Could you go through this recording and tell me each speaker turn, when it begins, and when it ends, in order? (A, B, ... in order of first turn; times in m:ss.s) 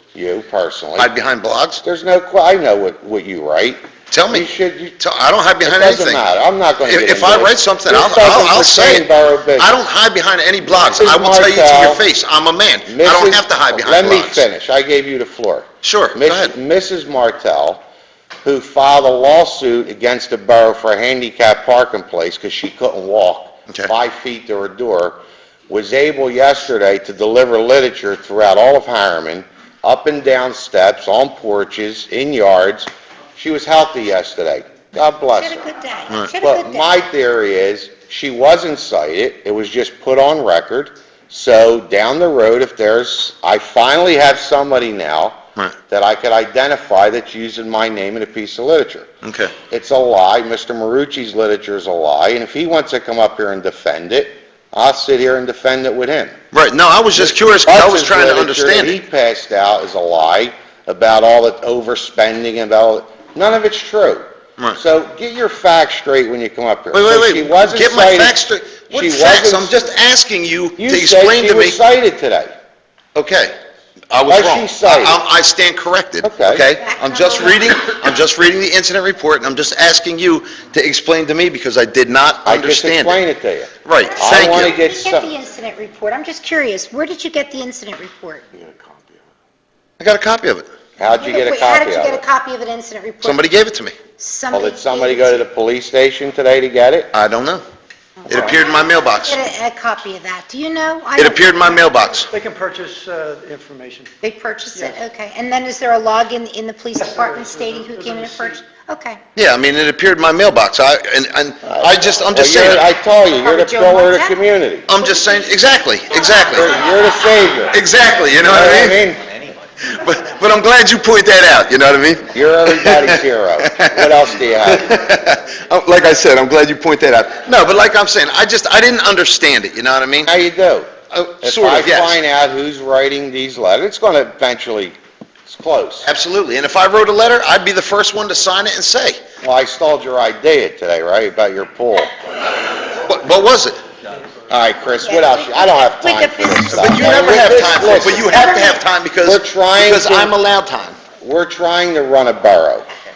0:00.1-0:01.1 A
0:01.0-0:01.8 B
0:01.8-0:05.0 A
0:04.1-0:06.2 B
0:05.6-0:09.8 A
0:06.8-0:14.4 B
0:10.6-0:12.0 A
0:12.9-0:17.8 A
0:15.8-0:16.5 B
0:18.4-0:25.2 A
0:25.7-0:35.6 A
0:35.4-0:36.9 C
0:36.4-0:49.1 A
0:49.2-0:49.5 B
0:49.7-0:56.4 A
0:56.5-0:59.0 B
0:57.2-1:08.4 A
1:06.9-1:11.8 B
1:08.9-1:09.8 A
1:10.8-1:12.5 A
1:13.1-1:13.5 B
1:14.1-1:23.2 B
1:14.3-1:15.2 A
1:16.2-1:16.6 A
1:16.8-1:18.0 C
1:22.4-1:25.3 A
1:23.8-1:24.7 B
1:24.0-1:28.4 C
1:28.6-1:29.2 A
1:30.0-1:30.7 B
1:31.0-1:32.2 A
1:31.1-1:33.5 C
1:33.2-1:33.9 B
1:34.2-1:35.4 C
1:34.5-1:37.1 A
1:37.1-1:37.6 B
1:38.3-1:39.4 B
1:38.3-1:41.9 C
1:41.2-1:42.3 B
1:42.3-1:44.1 D
1:44.2-1:49.2 C
1:47.0-1:48.6 D
1:49.3-1:52.9 B
1:51.6-1:54.9 A
1:53.3-1:54.4 C
1:54.9-1:56.8 B
1:55.0-1:57.2 C
1:56.5-1:57.8 A
1:57.7-1:59.0 B
1:58.4-1:59.2 A
1:59.8-2:04.1 B
2:02.3-2:04.9 A
2:04.6-2:10.3 B
2:10.2-2:10.9 A
2:11.1-2:12.2 B
2:11.4-2:14.9 A
2:15.4-2:16.1 A
2:16.0-2:19.2 B
2:19.4-2:22.1 A
2:22.9-2:23.8 B
2:24.5-2:28.4 A
2:25.0-2:27.6 C
2:26.7-2:31.0 B
2:28.2-2:28.7 C
2:29.2-2:30.3 A
2:31.2-2:32.9 A